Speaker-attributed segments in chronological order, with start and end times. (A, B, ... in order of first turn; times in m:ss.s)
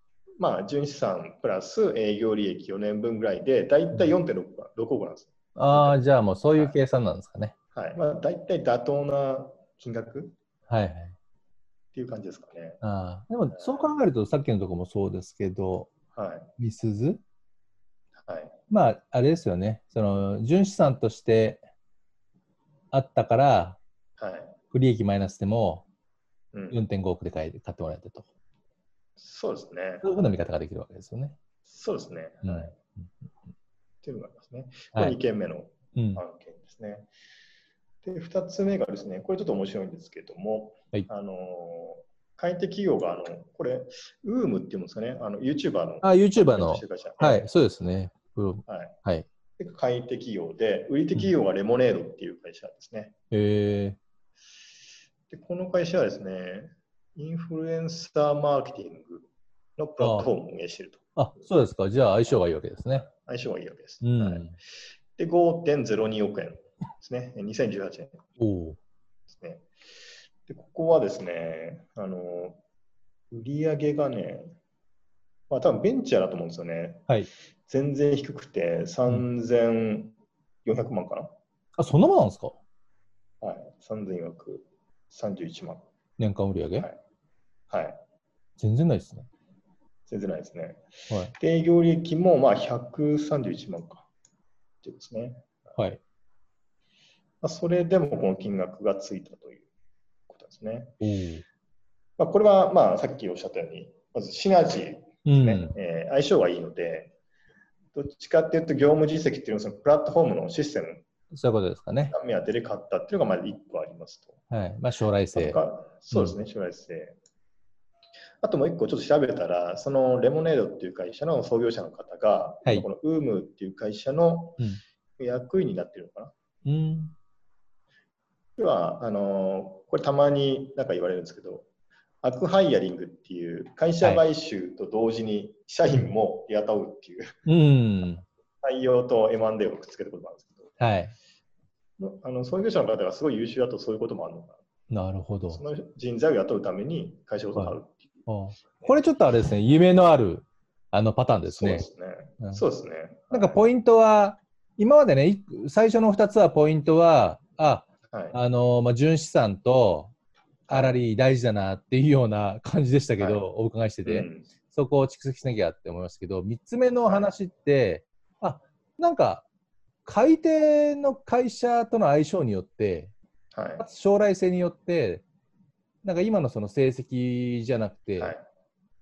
0:00.4-0:06.0 A
0:05.6-0:07.5 B
0:06.5-0:06.8 A
0:07.7-0:10.3 A
0:10.7-0:11.1 B
0:11.9-0:12.8 A
0:12.8-0:15.9 B
0:13.5-0:13.9 A
0:16.1-0:16.5 A
0:16.6-0:17.2 B
0:18.2-0:18.5 A
0:18.7-0:21.6 B
0:22.9-0:23.8 B
0:24.2-0:24.5 A
0:24.7-0:25.8 B
0:26.5-0:26.8 A
0:26.7-0:28.2 B
0:29.2-0:30.2 A
0:30.0-0:31.4 B
0:31.6-0:32.7 A
0:32.4-0:33.1 B
0:34.0-0:37.1 A
0:35.9-0:36.2 B
0:38.0-0:47.4 A
0:46.0-0:49.2 B
0:48.7-0:49.0 A
0:49.6-0:53.1 A
0:53.3-0:54.0 B
0:55.3-1:01.5 A
1:00.0-1:00.3 B
1:01.2-1:03.0 B
1:02.9-1:04.4 A
1:04.0-1:04.5 B
1:05.2-1:08.2 A
1:08.4-1:08.8 B
1:09.3-1:09.7 A
1:10.5-1:12.6 A
1:13.3-1:14.6 A
1:15.5-1:17.1 A
1:17.6-1:21.3 A
1:21.8-1:22.6 B
1:23.4-1:25.8 A
1:26.2-1:26.9 B
1:27.7-1:28.0 A
1:28.6-1:29.3 B
1:30.1-1:30.8 A
1:31.3-1:34.1 A
1:34.8-1:35.8 A
1:37.4-1:39.6 A
1:40.3-1:41.0 A
1:41.0-1:41.4 B
1:42.2-1:47.1 A
1:45.2-1:45.7 B
1:47.9-1:51.0 A
1:51.3-1:52.1 B
1:52.1-1:54.3 A
1:54.5-1:55.6 B
1:55.3-1:57.2 A
1:56.1-1:56.4 B
1:58.4-2:04.6 A
2:05.2-2:06.3 A
2:06.6-2:07.1 B
2:08.6-2:11.7 A
2:12.2-2:17.3 A
2:17.4-2:18.2 B
2:18.6-2:20.7 A
2:20.8-2:21.1 B
2:22.0-2:24.6 A
2:24.9-2:25.6 B
2:25.5-2:28.0 A
2:28.3-2:31.8 B
2:31.5-2:33.6 A
2:33.3-2:40.1 B
2:38.1-2:38.4 A
2:40.7-2:41.0 A
2:40.7-2:49.4 B
2:43.2-2:43.4 A
2:44.0-2:44.5 A
2:47.0-2:47.3 A
2:50.0-2:53.1 B
2:53.5-2:53.8 A
2:53.8-2:55.2 B
2:56.0-2:58.4 B
2:58.2-2:58.4 A